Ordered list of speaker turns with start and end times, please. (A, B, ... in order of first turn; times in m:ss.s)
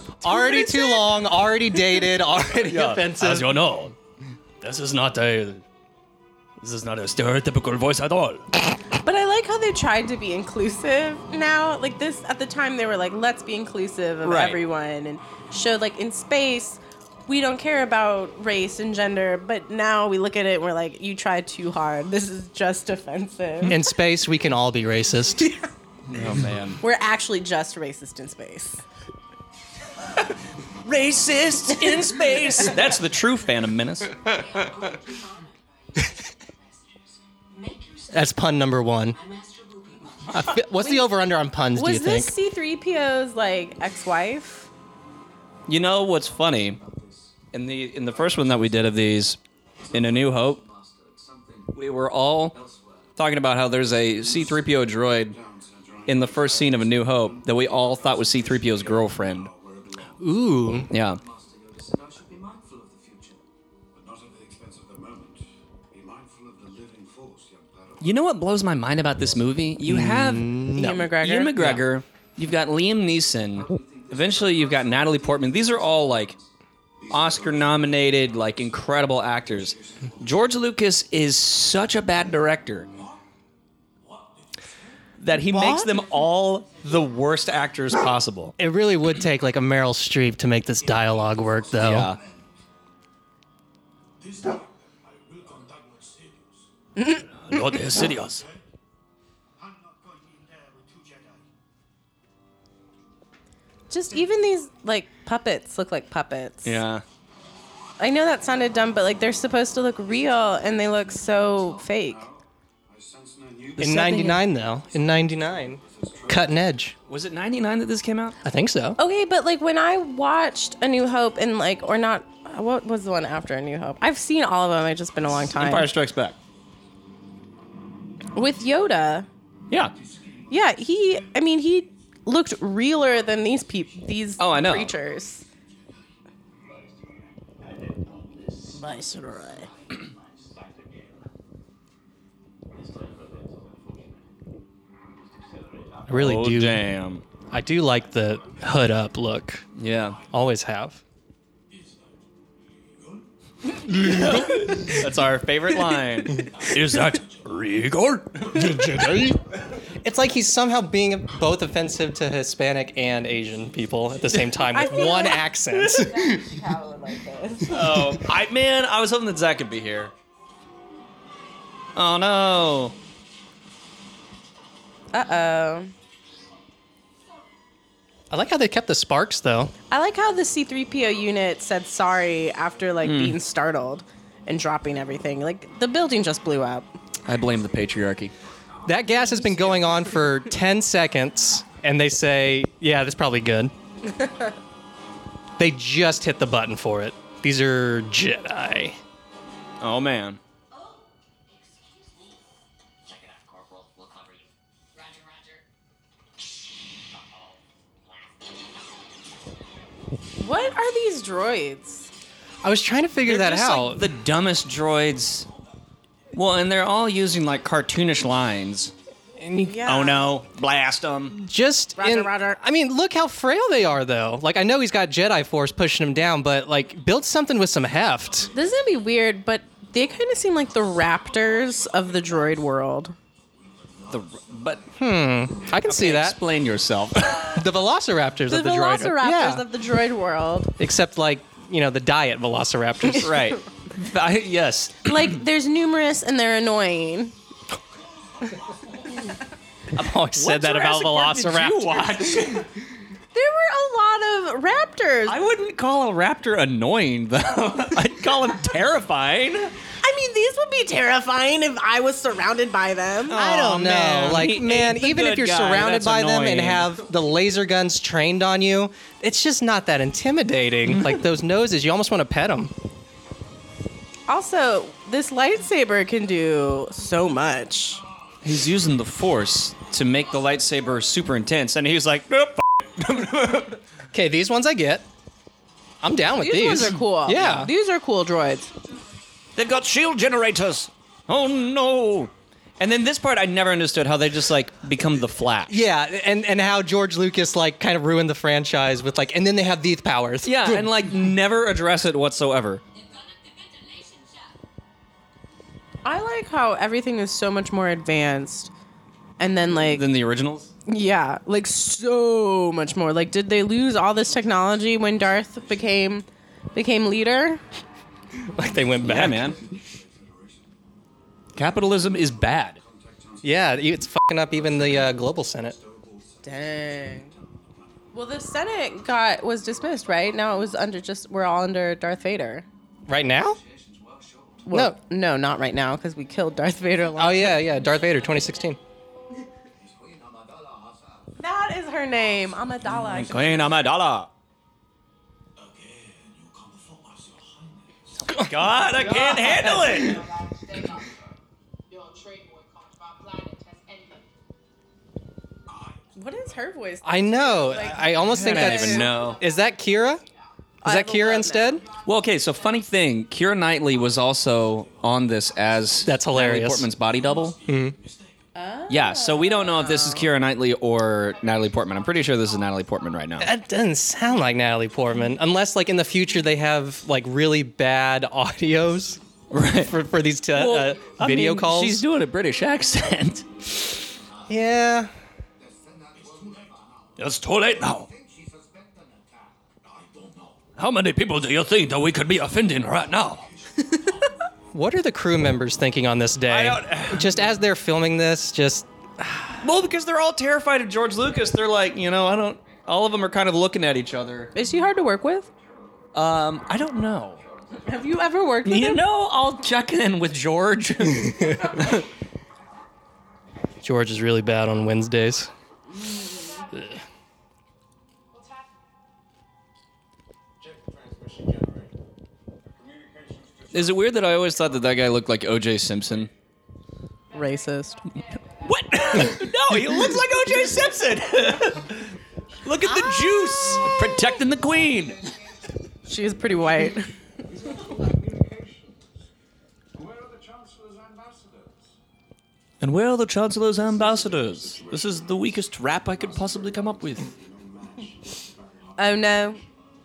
0:00.2-0:01.2 A
0:00.2-0:03.5 B
0:02.6-0:04.0 C
0:04.6-0:05.6 C
0:06.6-0:08.5 C
0:09.0-0:23.8 A
0:14.2-0:14.6 C
0:23.6-0:25.6 B
0:26.1-0:26.8 C
0:26.8-0:28.8 A
0:30.8-0:34.6 C
0:38.1-0:39.2 B
0:40.3-0:42.3 B
0:41.8-0:44.7 A
0:45.7-0:46.8 C
0:47.5-0:49.4 C
0:49.9-0:50.6 C
0:51.7-0:52.6 C
0:53.2-0:55.4 C
0:55.3-1:00.2 D
0:56.1-0:59.5 C
1:00.2-1:00.9 B
1:00.9-1:01.2 C
1:03.9-1:08.1 D
1:08.0-1:10.5 C
1:09.8-1:11.8 B
1:10.8-1:11.5 A
1:11.2-1:16.4 C
1:13.7-1:15.8 D
1:17.0-1:18.7 D
1:17.1-1:22.9 C
1:19.4-1:20.2 D
1:25.2-1:28.6 C
1:25.6-1:25.9 B
1:28.6-1:32.1 B
1:31.8-1:32.2 C
1:35.1-1:36.5 D
1:37.0-1:37.2 A
1:37.2-1:38.4 C
1:40.2-1:41.3 D
1:43.9-1:46.8 A
1:46.6-1:47.0 C
1:48.0-1:52.2 A
1:51.9-1:56.6 D
1:53.8-1:54.1 C
1:53.8-1:57.0 B
1:53.9-1:54.4 A
1:57.1-1:58.4 C
1:58.4-1:59.0 B
1:59.0-2:05.9 A
2:05.5-2:06.4 C
2:08.4-2:09.3 A
2:10.5-2:15.4 A
2:14.4-2:14.9 C
2:18.7-2:19.7 A
2:26.1-2:26.8 B
2:26.1-2:27.2 C
2:27.5-2:29.6 B
2:29.8-2:30.2 C
2:30.3-2:31.0 B
2:33.9-2:39.3 C
2:34.0-2:34.8 B
2:38.5-2:39.4 B
2:40.0-2:46.4 B
2:44.7-2:48.0 A
2:47.7-2:50.1 C
2:52.0-2:53.0 C
2:55.1-2:55.9 A
2:58.3-2:59.7 B
2:59.9-3:06.9 A
3:03.0-3:03.4 C
3:07.3-3:08.3 C
3:08.9-3:13.7 B
3:15.6-3:19.0 B
3:19.8-3:20.4 C
3:30.4-3:32.1 A
3:32.6-3:34.1 B
3:33.2-3:35.5 C
3:36.3-3:38.9 C
3:39.4-3:39.8 B
3:39.6-3:40.2 A
3:39.8-3:41.4 C
3:41.4-3:48.5 B
3:42.0-3:42.6 A
3:48.5-3:53.2 A
3:54.1-3:54.8 C
3:55.0-3:56.4 B
3:55.6-3:57.6 C
3:57.5-3:59.7 B
3:58.5-4:00.7 A
4:00.8-4:03.4 B
4:03.1-4:05.3 C
4:05.0-4:07.4 A
4:09.9-4:12.6 B
4:10.4-4:12.7 C
4:13.3-4:15.4 A
4:15.3-4:19.7 C
4:20.0-4:23.4 A
4:23.3-4:26.9 C
4:23.3-4:32.7 B
4:30.9-4:31.2 C
4:34.3-4:38.0 A
4:38.4-4:43.8 C
4:44.1-4:45.1 B
4:46.0-4:47.7 B
4:46.4-4:48.7 A
4:47.4-4:47.7 C
4:49.6-4:55.8 C
4:55.7-5:00.9 B
5:00.4-5:02.8 C
5:06.0-5:08.7 A
5:09.4-5:10.1 A
5:09.8-5:10.7 C
5:10.9-5:17.6 A
5:18.4-5:19.6 B
5:19.0-5:19.6 C
5:19.2-5:20.7 D
5:21.6-5:22.8 C
5:22.8-5:23.9 D
5:23.4-5:25.8 B
5:24.6-5:25.1 D
5:25.6-5:26.7 D
5:26.4-5:27.3 A
5:27.3-5:27.6 D
5:28.1-5:32.7 A
5:33.1-5:33.6 B
5:34.6-5:37.6 A
5:34.7-5:35.0 B
5:37.2-5:38.8 B
5:39.8-5:41.2 D
5:41.4-5:43.8 A
5:42.9-5:44.3 C
5:45.7-5:48.0 D
5:48.2-5:50.3 C
5:48.3-5:50.2 B
5:49.6-5:51.3 E
5:51.9-5:54.3 E
5:56.2-5:59.1 A
5:57.0-6:00.2 B
5:58.3-5:59.4 C
5:59.1-5:59.4 E
6:00.8-6:01.8 A
6:00.8-6:01.8 B
6:02.0-6:07.6 C
6:06.0-6:06.9 B
6:07.7-6:08.0 B
6:08.6-6:10.3 A
6:08.9-6:13.5 C
6:13.4-6:19.2 B
6:19.5-6:19.9 C
6:19.8-6:22.0 B
6:20.5-6:23.7 C
6:24.5-6:25.1 B
6:25.6-6:27.1 D
6:27.2-6:28.1 C
6:28.0-6:30.6 D
6:30.8-6:33.4 C
6:34.7-6:39.6 B
6:36.5-6:37.4 C
6:39.6-6:44.5 C
6:44.5-6:45.5 A
6:46.1-6:47.4 C
6:47.8-6:49.0 A
6:48.6-6:52.0 C
6:53.8-6:55.5 B
6:56.0-6:56.6 A
6:56.1-6:57.0 E
6:58.3-6:58.8 E
7:00.6-7:01.9 D
7:02.7-7:04.4 D
7:03.7-7:06.3 C
7:07.3-7:09.4 E
7:07.3-7:08.0 A
7:08.6-7:15.3 C
7:16.1-7:17.1 A
7:17.5-7:19.0 D
7:19.9-7:22.0 D
7:22.8-7:27.3 C
7:23.8-7:29.7 D
7:29.0-7:29.6 A